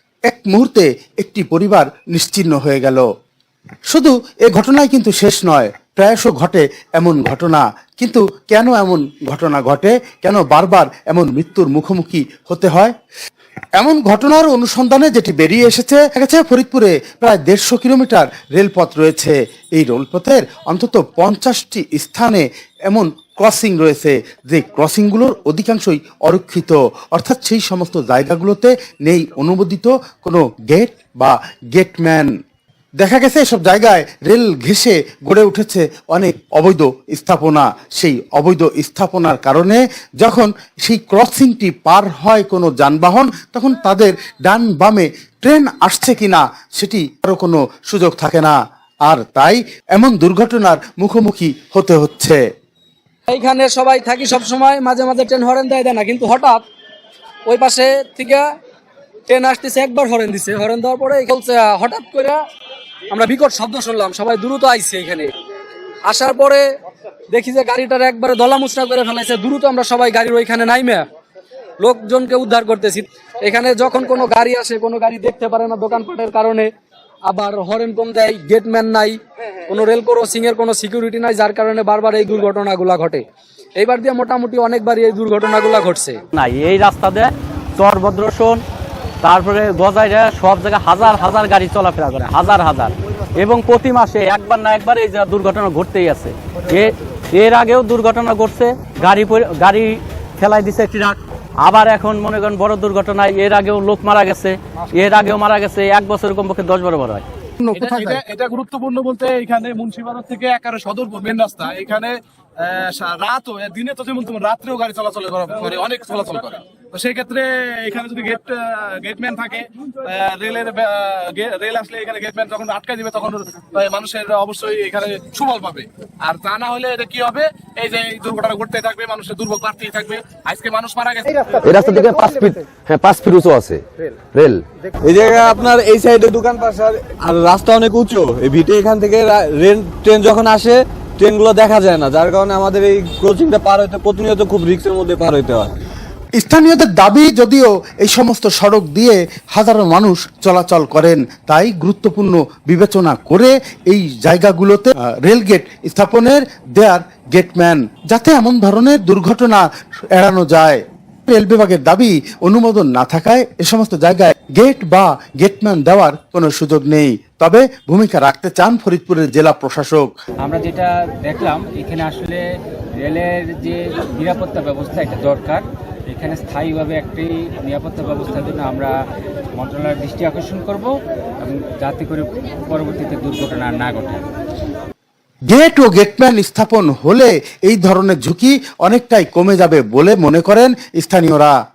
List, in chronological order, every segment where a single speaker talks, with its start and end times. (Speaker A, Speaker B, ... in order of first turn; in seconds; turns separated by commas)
Speaker A: 0.3-3.0, Speaker A: 3.9-12.9, Speaker A: 13.8-32.3, Speaker A: 33.0-52.4, Speaker B: 53.3-56.6, Speaker B: 57.5-58.4, Speaker B: 59.3-62.4, Speaker B: 63.1-65.3, Speaker B: 66.0-66.7, Speaker B: 67.3-71.0, Speaker B: 71.8-76.7, Speaker B: 77.2-83.2, Speaker B: 83.8-86.2, Speaker C: 86.3-88.6, Speaker C: 89.2-107.2, Speaker A: 107.6-108.2, Speaker D: 107.7-131.6, Speaker E: 131.6-134.7, Speaker F: 135.0-145.7, Speaker A: 146.4-170.1, Speaker G: 170.4-172.4, Speaker G: 173.0-179.0, Speaker G: 179.6-184.2, Speaker A: 185.5-191.5